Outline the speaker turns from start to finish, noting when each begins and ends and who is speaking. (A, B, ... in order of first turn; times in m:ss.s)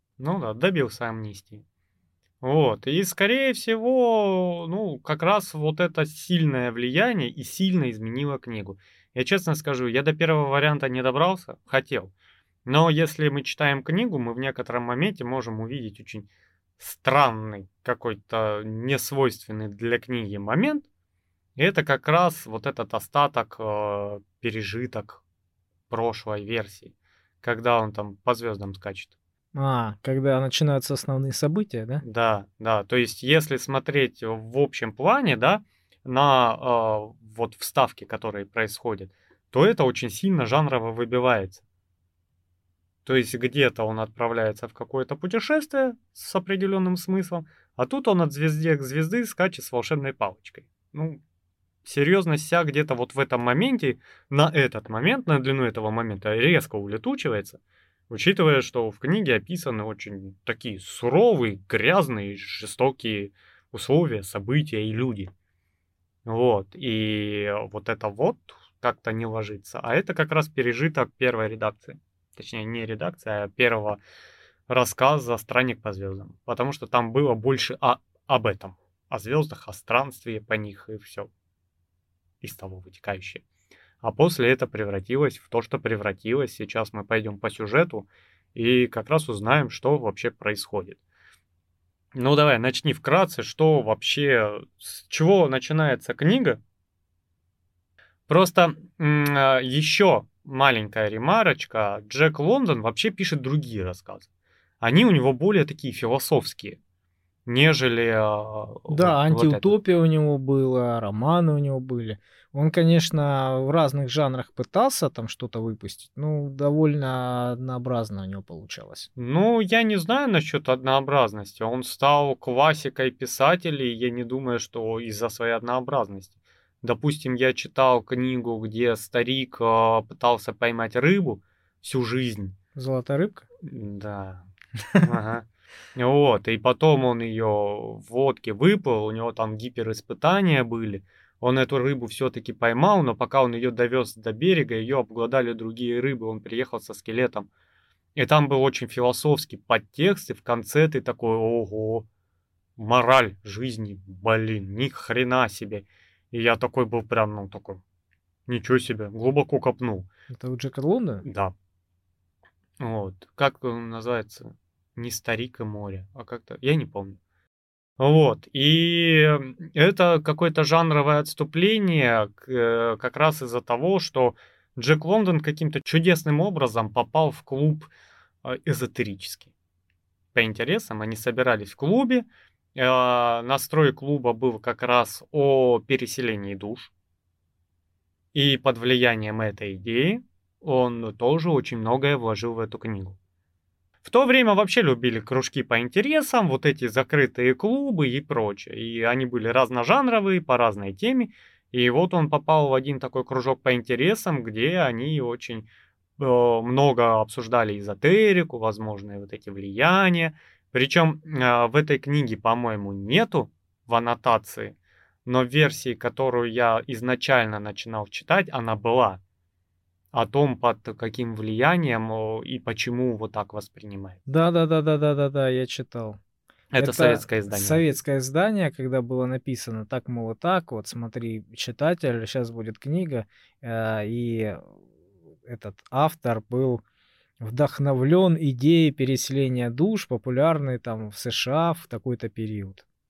0:00.2-0:01.6 A
0:02.4-0:12.1 A
0:12.6-0:16.3 A
0:16.8-0:20.8 A
0:21.6-0:25.2 A
0:25.9-0:29.1 A
0:29.5-0:32.0 B
0:32.0-0:41.6 A
0:43.0-0:51.2 A
0:51.8-1:05.3 A
1:06.2-1:14.0 A
1:14.7-1:21.3 A
1:22.4-1:23.4 A
1:24.0-1:31.0 A
1:32.1-1:36.6 A
1:38.3-1:44.3 A
1:44.8-1:46.8 A
1:47.4-1:49.7 A
1:48.9-1:59.1 B
1:59.2-2:12.5 A
2:12.8-2:13.4 B
2:13.6-2:14.4 A
2:15.0-2:27.5 A
2:28.2-2:32.1 A
2:32.8-2:37.8 A
2:38.5-2:40.1 A
2:40.3-2:41.2 B
2:41.2-2:41.5 A
2:42.8-2:47.2 A
2:48.0-2:57.9 A
2:58.4-2:59.5 A
3:00.3-3:06.9 A
3:08.3-3:13.2 A
3:14.0-3:25.7 A
3:26.2-3:39.2 A
3:40.1-3:44.2 A
3:44.3-3:46.2 B
3:46.7-3:47.8 A
3:46.8-3:54.6 B
3:55.4-3:56.8 B
3:57.4-4:02.8 B